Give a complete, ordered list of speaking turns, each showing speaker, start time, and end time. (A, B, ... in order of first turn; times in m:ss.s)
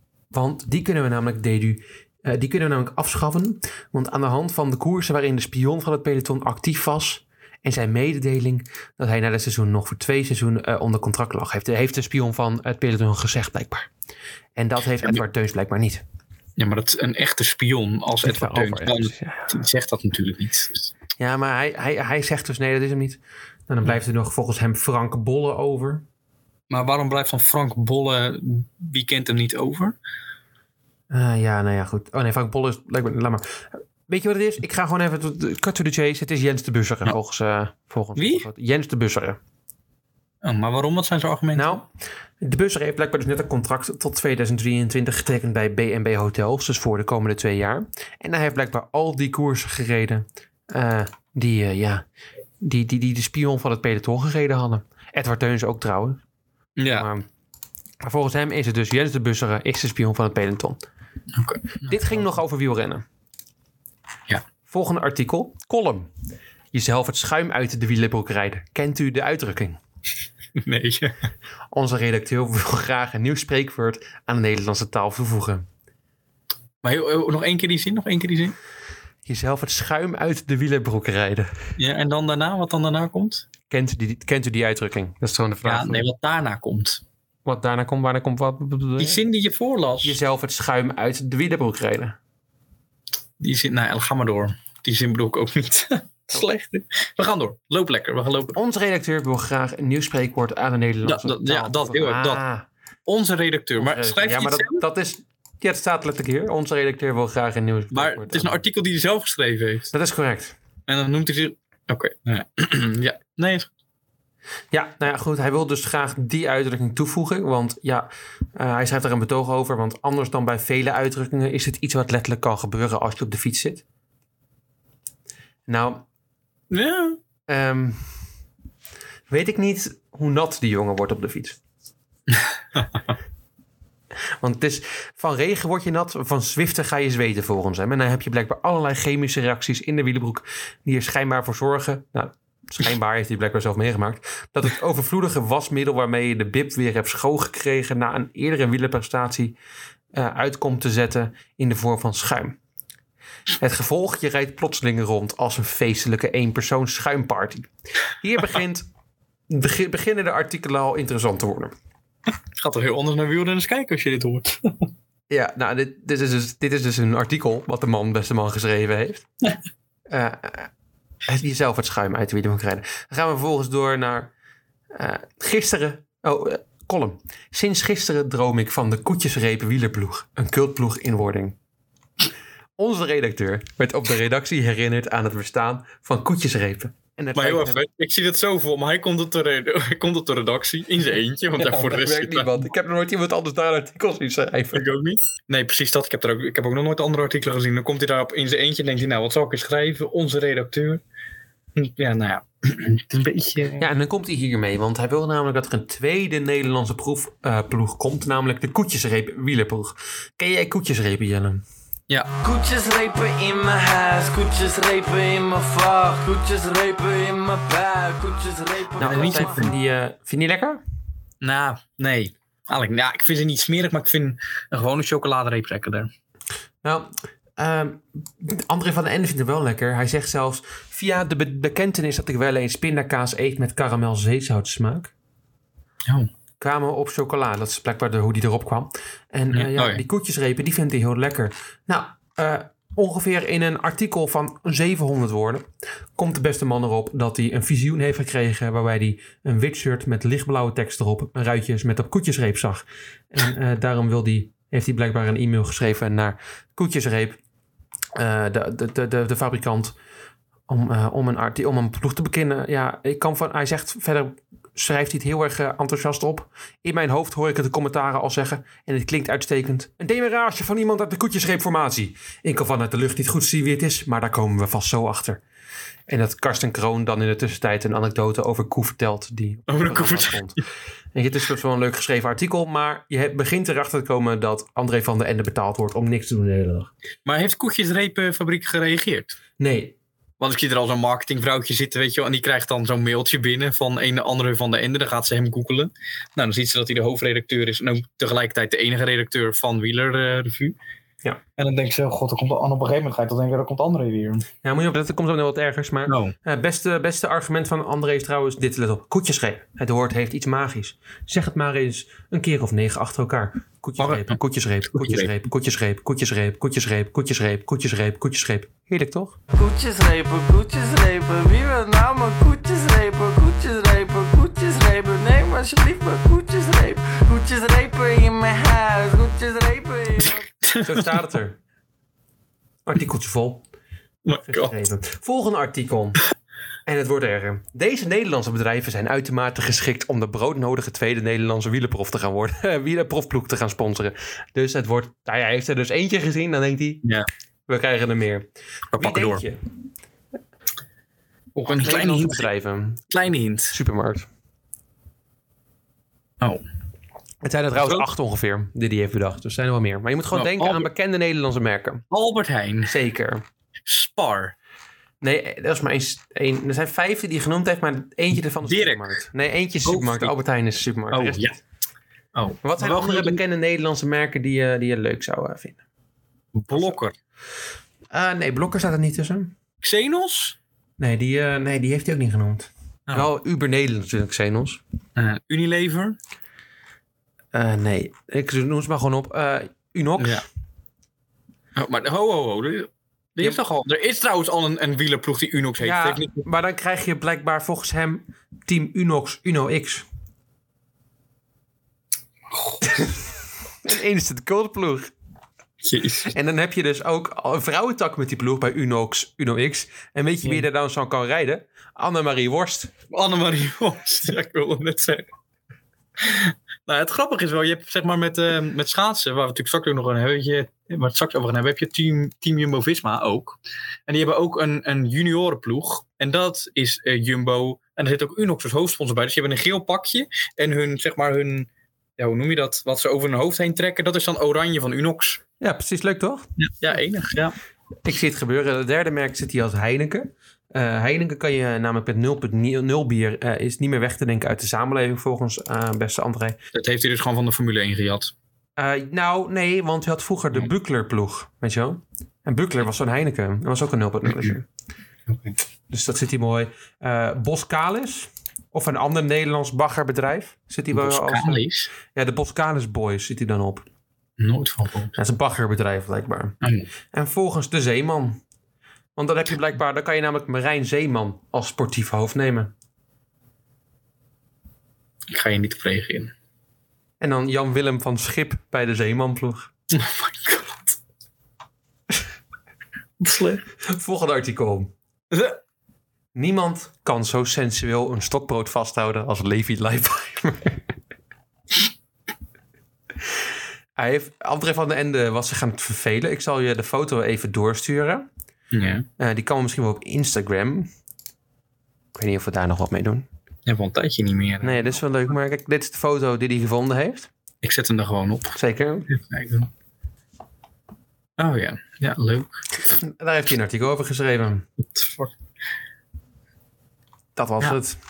0:00.3-0:13.9 A
0:14.6-0:16.0 A
0:16.6-0:20.9 B
0:18.2-0:19.5 A
0:21.2-0:26.0 A
0:26.7-0:30.0 B
0:31.1-0:39.4 A
0:38.2-0:38.4 B
0:40.4-0:41.8 B
0:41.6-0:41.9 A
0:42.4-0:52.0 A
0:52.6-0:56.2 A
0:56.8-0:57.1 B
0:57.0-0:57.3 A
0:58.0-1:00.8 A
1:01.3-1:02.2 B
1:01.9-1:03.0 A
1:04.7-1:06.1 A
1:06.7-1:09.8 A
1:10.6-1:11.1 B
1:11.7-1:15.7 A
1:16.8-1:18.6 B
1:19.3-1:21.5 A
1:21.8-1:23.4 B
1:23.7-1:26.1 A
1:25.6-1:27.0 B
1:27.4-1:29.2 A
1:29.0-1:30.2 B
1:30.0-1:32.2 A
1:33.4-1:38.6 B
1:38.6-1:42.7 A
1:41.0-1:42.4 B
1:43.1-1:44.8 B
1:43.8-1:48.6 A
1:47.9-1:49.9 B
1:49.9-1:50.6 A
1:50.9-1:53.7 B
1:54.7-2:03.8 A
2:05.7-2:06.0 A
2:06.7-2:07.2 B
2:07.5-2:08.2 A
2:09.3-2:11.6 A
2:12.3-2:12.8 B
2:14.4-2:29.6 A
2:30.1-2:32.6 A
2:33.6-2:38.9 A
2:39.5-2:41.7 A
2:42.6-2:44.9 B
2:45.3-2:49.2 A
2:50.1-2:50.7 A
2:51.3-2:54.3 A
2:54.9-3:01.6 A
3:02.8-3:07.8 A
3:07.4-3:12.6 B
3:11.6-3:14.9 A
3:14.7-3:21.0 B
3:21.8-3:23.9 B
3:23.8-3:31.6 A
3:32.4-3:39.5 C
3:39.0-3:40.8 A
3:39.0-3:39.7 B
3:41.4-3:46.1 B
3:46.8-3:55.1 A
3:56.6-4:17.4 A
3:59.5-4:00.0 B
4:18.2-4:20.0 A
4:20.7-4:35.4 A
4:36.1-4:40.6 A
4:39.7-4:40.6 B
4:41.1-4:46.9 A
4:47.3-4:49.4 B
4:49.6-4:50.0 A
4:50.4-5:00.8 B
5:01.6-5:04.5 B
5:04.6-5:19.4 A
5:06.1-5:06.4 B
5:14.0-5:14.4 B
5:14.9-5:15.3 B
5:19.6-5:30.5 C
5:30.2-5:31.2 B
5:30.8-5:31.6 A
5:32.9-5:33.6 A
5:34.2-5:34.8 B
5:34.4-5:36.2 A
5:36.9-5:47.0 A
5:47.7-5:48.5 A
5:48.9-5:49.4 B
5:49.0-5:49.6 A
5:51.6-5:52.5 B
5:51.7-5:53.1 A
5:53.1-5:53.8 B
5:53.7-5:54.3 A
5:57.4-6:02.0 A
5:57.8-5:58.1 B
6:00.3-6:00.9 B
6:02.1-6:03.0 B
6:02.9-6:03.4 A
6:03.9-6:04.6 B
6:05.2-6:11.6 A
6:08.6-6:09.2 B
6:09.8-6:10.3 B
6:11.1-6:11.6 B
6:12.3-6:13.4 B
6:12.6-6:15.8 A
6:16.6-6:17.2 B
6:18.1-6:19.5 A
6:19.8-6:20.6 B
6:21.0-6:24.8 A
6:25.2-6:26.2 B
6:27.5-6:30.4 A
6:30.2-6:30.5 B
6:31.8-6:36.4 B
6:35.8-6:40.0 A
6:42.5-6:43.1 B
6:43.8-6:45.1 A
6:45.8-6:46.3 B
6:46.3-6:52.9 A
6:53.1-6:55.3 B
6:56.2-7:15.4 B
7:15.6-7:16.4 A
7:16.6-7:17.6 B
7:18.0-7:26.6 A
7:26.7-7:28.3 B
7:28.8-7:34.7 A
7:34.3-7:34.5 B
7:35.3-7:35.6 B
7:35.9-7:43.8 A
7:40.9-7:41.9 B
7:44.4-7:45.1 B
7:45.2-7:46.6 A
7:46.6-7:46.9 B
7:47.1-7:48.4 A
7:49.2-7:52.7 A
7:55.3-7:56.3 B
7:57.2-7:59.7 A
7:59.9-8:01.0 B
8:03.2-8:03.6 B
8:03.8-8:04.9 A
8:05.3-8:05.6 B
8:06.4-8:10.8 A
8:14.0-8:18.3 A
8:18.7-8:19.1 B
8:19.2-8:20.9 A
8:22.2-8:23.3 A
8:23.7-8:24.8 B
8:24.6-8:27.3 A
8:27.6-8:28.6 B
8:28.6-8:29.1 A
8:29.1-8:29.7 B
8:31.4-8:32.6 B
8:32.8-8:34.7 A
8:34.8-8:35.3 B
8:37.4-8:38.0 A